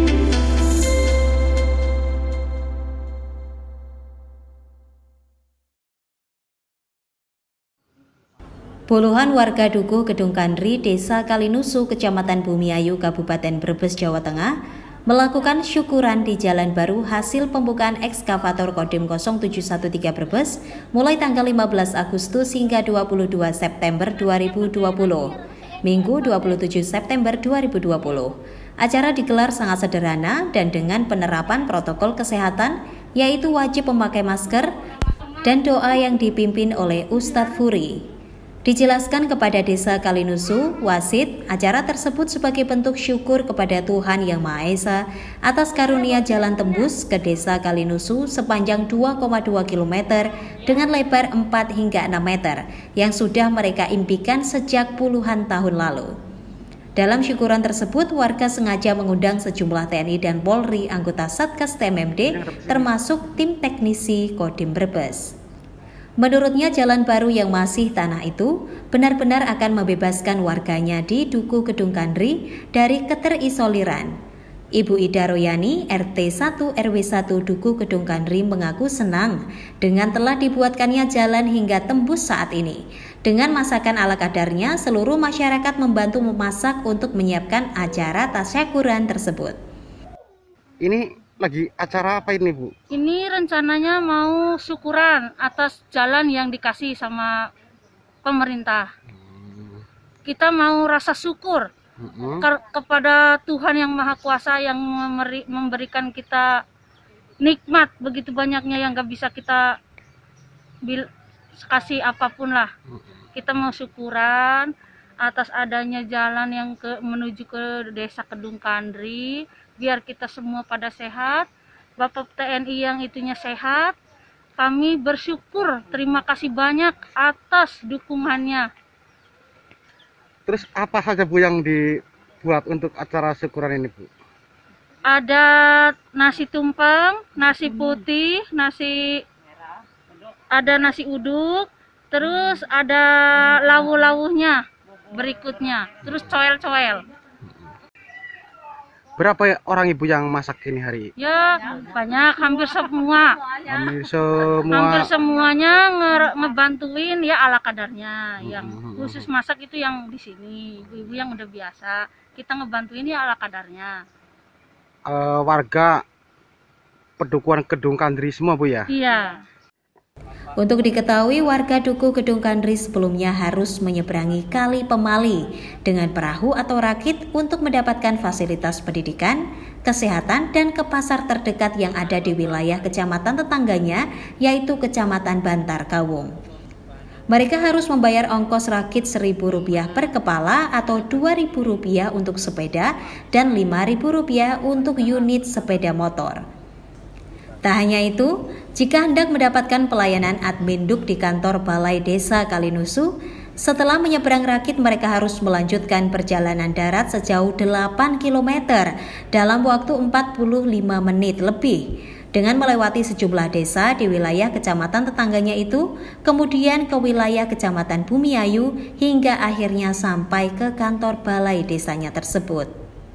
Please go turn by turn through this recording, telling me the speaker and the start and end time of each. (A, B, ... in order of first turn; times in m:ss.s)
0:08.9-0:14.5 A
0:15.1-0:34.7 A
0:35.4-0:38.0 A
0:38.6-0:56.1 A
0:57.0-1:05.3 A
1:02.3-1:02.9 B
1:06.2-1:14.1 A
1:14.8-1:29.6 A
1:30.8-1:32.7 B
1:32.9-1:37.5 C
1:38.2-1:38.9 C
1:39.3-1:39.8 B
1:40.2-1:41.7 C
1:42.0-1:42.5 B
1:42.4-1:46.6 C
1:47.4-1:49.8 C
1:50.8-1:52.7 C
1:53.3-2:04.0 C
2:04.6-2:08.7 C
2:10.4-2:14.1 B
2:15.1-2:19.2 C
2:20.5-2:24.6 C
2:25.1-2:27.0 C
2:29.2-2:31.1 B
2:31.2-2:33.6 C
2:33.7-2:35.1 B
2:34.7-2:44.0 C
2:38.4-2:39.2 B
2:45.1-2:46.0 B
2:47.2-2:48.9 B
2:48.9-2:49.4 C
2:50.6-3:06.3 A
3:07.3-3:16.4 A
3:17.6-3:42.7 A